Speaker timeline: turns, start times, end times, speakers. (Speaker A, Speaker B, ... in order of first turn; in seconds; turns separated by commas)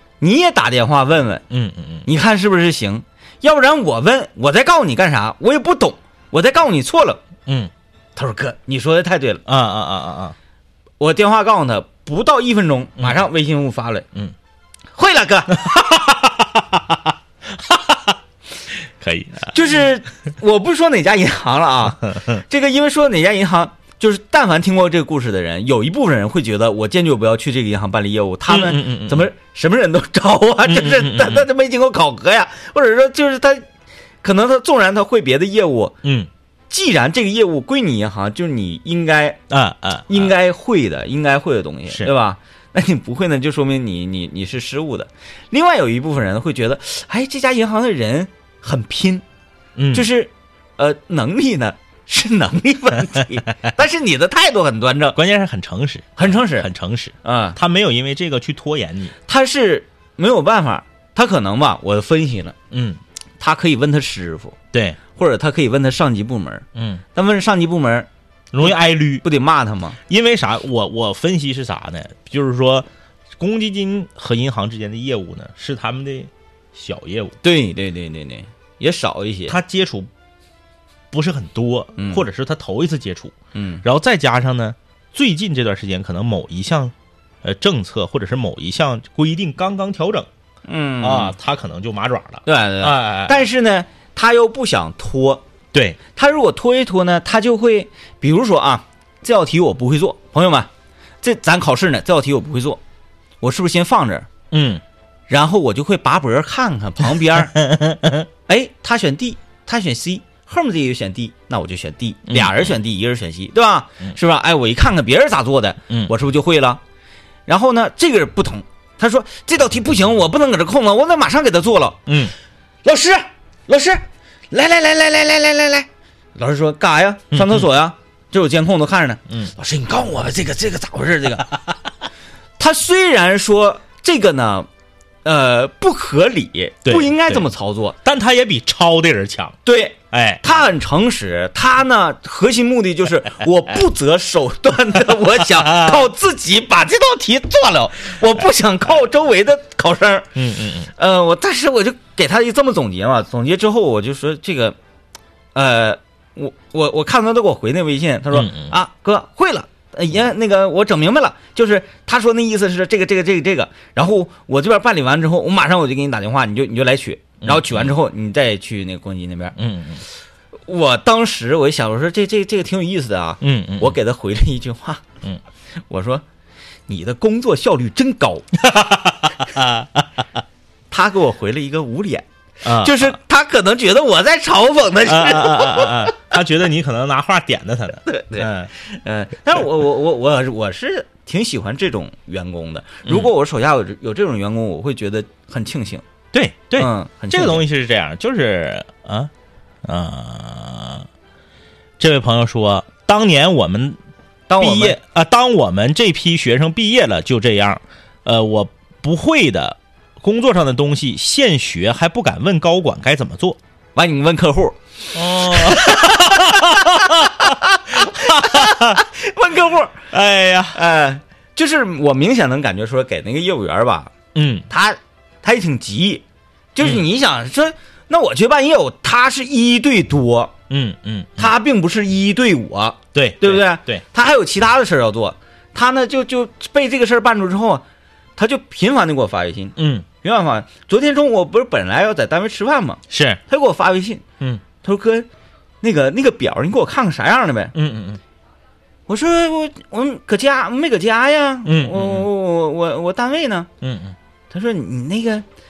Speaker A: 0.2-1.4, Speaker B: 1.5-2.1, Speaker A: 2.0-7.2, Speaker A: 8.2-9.4, Speaker B: 9.4-10.3, Speaker A: 11.0-14.1, Speaker A: 14.9-15.6, Speaker B: 15.5-18.1, Speaker B: 19.0-19.5, Speaker A: 19.5-33.6, Speaker B: 22.0-22.4, Speaker B: 28.5-29.3, Speaker B: 30.7-31.4, Speaker A: 34.2-36.0, Speaker B: 36.0-36.3, Speaker A: 36.7-39.4, Speaker B: 39.5-40.3, Speaker A: 40.1-49.2, Speaker B: 49.8-50.1, Speaker A: 49.9-55.2, Speaker B: 55.1-59.1, Speaker A: 56.2-56.7, Speaker A: 57.2-57.6, Speaker A: 59.2-62.5, Speaker B: 62.7-63.0, Speaker A: 63.4-64.5, Speaker B: 64.7-65.0, Speaker A: 65.1-68.1, Speaker B: 66.7-67.0, Speaker B: 68.5-69.2, Speaker A: 68.6-70.0, Speaker B: 70.1-72.8, Speaker B: 73.4-77.3, Speaker A: 77.4-79.6, Speaker B: 79.5-80.1, Speaker B: 81.1-90.3, Speaker A: 82.0-82.2, Speaker A: 83.5-83.8, Speaker A: 90.7-91.3, Speaker B: 91.0-93.4, Speaker A: 92.5-95.4, Speaker A: 96.1-100.7, Speaker A: 101.2-102.8, Speaker A: 103.4-104.3, Speaker B: 104.5-104.8, Speaker A: 105.3-107.6, Speaker B: 107.5-108.3, Speaker A: 108.5-116.8, Speaker B: 112.3-112.8, Speaker A: 117.5-122.0, Speaker B: 122.1-122.3, Speaker A: 122.8-131.5, Speaker B: 127.3-127.6, Speaker A: 132.6-134.7, Speaker A: 135.2-137.9, Speaker B: 136.8-137.4, Speaker B: 138.0-139.6, Speaker A: 139.6-150.3, Speaker B: 140.1-140.6, Speaker B: 145.6-146.1, Speaker B: 150.3-150.9, Speaker A: 150.9-154.8, Speaker A: 155.5-169.6, Speaker B: 158.3-158.7, Speaker B: 167.4-167.9, Speaker B: 169.6-170.0, Speaker A: 170.7-175.0, Speaker B: 173.4-173.9, Speaker A: 175.9-176.2, Speaker A: 176.9-178.4, Speaker B: 178.6-180.0, Speaker A: 180.9-186.0, Speaker B: 182.6-183.1, Speaker B: 185.1-188.7, Speaker A: 188.1-196.0, Speaker B: 196.3-199.3, Speaker A: 196.8-197.6, Speaker B: 199.8-201.1, Speaker B: 202.0-204.0, Speaker A: 204.5-205.0, Speaker B: 204.6-213.6, Speaker A: 213.9-220.0, Speaker B: 215.1-219.0, Speaker B: 220.1-220.8, Speaker A: 220.7-224.1, Speaker B: 224.3-224.7, Speaker A: 224.7-226.2, Speaker A: 226.7-230.5, Speaker B: 230.7-231.5, Speaker A: 231.4-237.8, Speaker B: 233.1-234.0, Speaker A: 238.4-244.2, Speaker B: 239.8-240.1, Speaker B: 243.1-243.4, Speaker A: 244.8-245.3, Speaker A: 245.8-247.7, Speaker B: 247.7-248.2, Speaker A: 249.1-253.7, Speaker B: 251.6-252.3, Speaker B: 253.8-254.2, Speaker A: 254.5-255.4